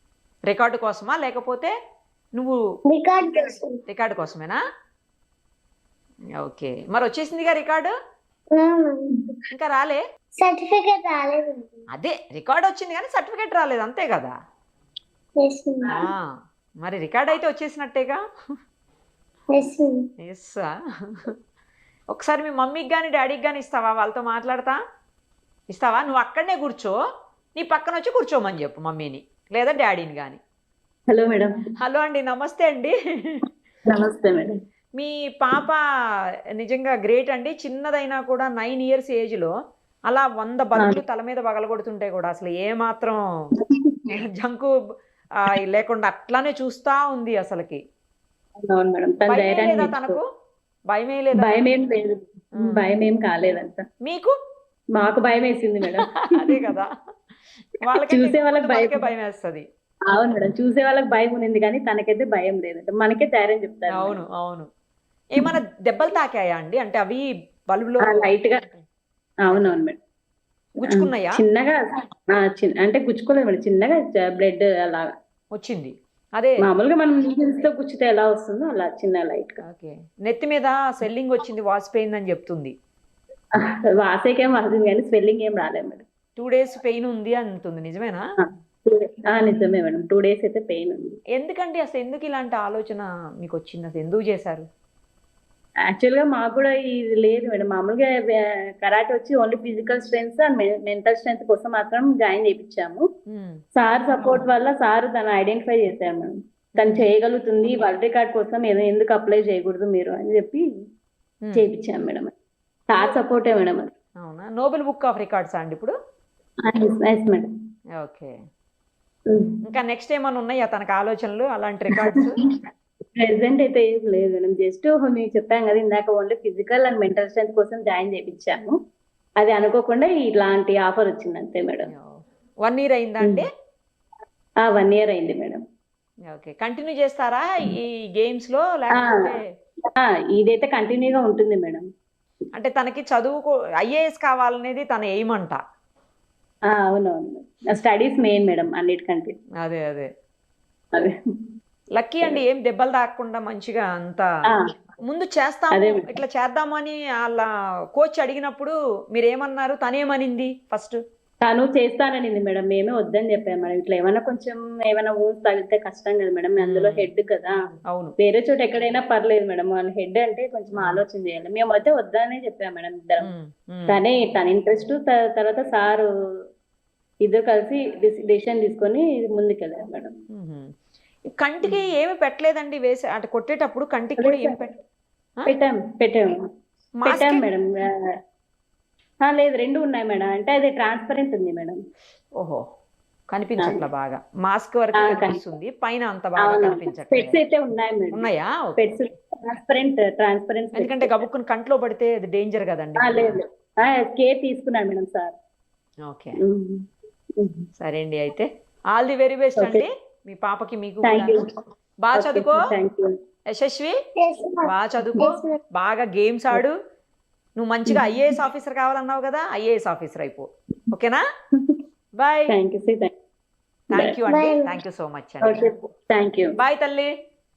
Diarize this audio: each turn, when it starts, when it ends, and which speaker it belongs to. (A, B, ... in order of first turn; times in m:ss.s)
0:00.5-0:01.7 A
0:02.9-0:03.8 B
0:03.9-0:04.6 A
0:06.4-0:07.9 A
0:08.6-0:09.0 B
0:09.5-0:10.0 A
0:10.4-0:11.8 B
0:11.9-0:14.3 A
0:15.4-0:16.0 B
0:15.9-0:16.2 A
0:16.8-0:18.2 A
0:19.5-0:20.0 B
0:20.2-0:21.3 A
0:22.1-0:24.8 A
0:25.7-0:26.9 A
0:27.6-0:30.4 A
0:31.1-0:31.5 C
0:31.8-0:33.4 A
0:33.9-0:34.6 C
0:35.0-0:35.8 A
0:36.6-0:39.5 A
0:40.1-0:43.2 A
0:43.6-0:44.1 C
0:44.1-0:44.7 A
0:45.4-0:47.8 A
0:48.7-0:50.2 C
0:49.2-0:50.2 A
0:50.9-0:51.6 A
0:51.4-0:53.8 C
0:52.6-0:52.9 A
0:54.0-0:54.3 A
0:54.9-0:56.7 C
0:56.3-0:56.9 A
0:57.8-0:59.6 A
0:58.1-0:59.1 C
1:00.1-1:04.2 C
1:03.9-1:04.7 A
1:05.3-1:08.8 A
1:08.0-1:08.6 C
1:09.4-1:10.0 C
1:09.5-1:09.8 A
1:10.8-1:11.4 A
1:10.9-1:11.8 C
1:12.3-1:15.1 C
1:15.5-1:16.6 A
1:16.6-1:19.6 C
1:19.6-1:22.7 A
1:24.0-1:26.0 C
1:26.4-1:28.2 A
1:28.9-1:31.2 C
1:31.3-1:34.6 A
1:35.9-1:38.1 C
1:38.8-1:43.0 C
1:43.3-1:43.6 A
1:43.8-1:50.6 C
1:46.8-1:47.0 A
1:51.6-1:52.3 C
1:52.9-1:53.9 C
1:54.2-1:55.9 A
1:56.6-1:57.4 C
1:58.0-1:58.3 A
1:59.3-1:59.6 C
1:59.6-2:02.4 A
2:02.0-2:02.5 C
2:03.2-2:08.7 C
2:09.4-2:11.9 C
2:11.9-2:13.5 A
2:14.6-2:15.6 C
2:16.3-2:19.4 A
2:19.0-2:19.3 C
2:20.0-2:21.8 C
2:22.5-2:25.6 A
2:26.7-2:29.3 C
2:29.6-2:30.1 A
2:31.9-2:34.2 A
2:35.0-2:41.0 A
2:35.7-2:36.1 C
2:41.4-2:47.6 C
2:46.6-2:47.1 A
2:47.7-2:48.1 A
2:48.2-2:53.3 C
2:50.7-2:51.0 A
2:53.2-2:54.0 A
2:53.9-2:56.1 C
2:57.2-3:00.1 C
3:00.3-3:00.7 A
3:01.4-3:04.7 A
3:04.2-3:04.6 C
3:05.4-3:06.3 C
3:07.0-3:07.4 A
3:07.0-3:07.7 C
3:09.2-3:11.8 C
3:13.3-3:17.4 A
3:13.6-3:13.8 C
3:15.0-3:15.4 C
3:16.4-3:18.3 C
3:18.1-3:19.0 A
3:18.8-3:21.2 C
3:20.7-3:23.4 A
3:23.0-3:25.4 C
3:26.1-3:26.4 A
3:26.4-3:26.8 C
3:27.4-3:27.6 C
3:27.8-3:31.4 A
3:29.6-3:29.8 C
3:31.0-3:31.5 C
3:32.0-3:32.6 A
3:32.1-3:33.1 C
3:33.5-3:33.9 A
3:34.2-3:35.6 B
3:34.7-3:36.7 A
3:37.6-3:41.2 A
3:37.9-3:38.3 C
3:41.5-3:41.8 C
3:42.2-3:42.5 A
3:42.5-3:43.1 C
3:43.9-3:45.6 A
3:43.9-3:44.2 C
3:44.3-3:44.8 B
3:45.4-3:46.6 C
3:46.6-3:47.1 A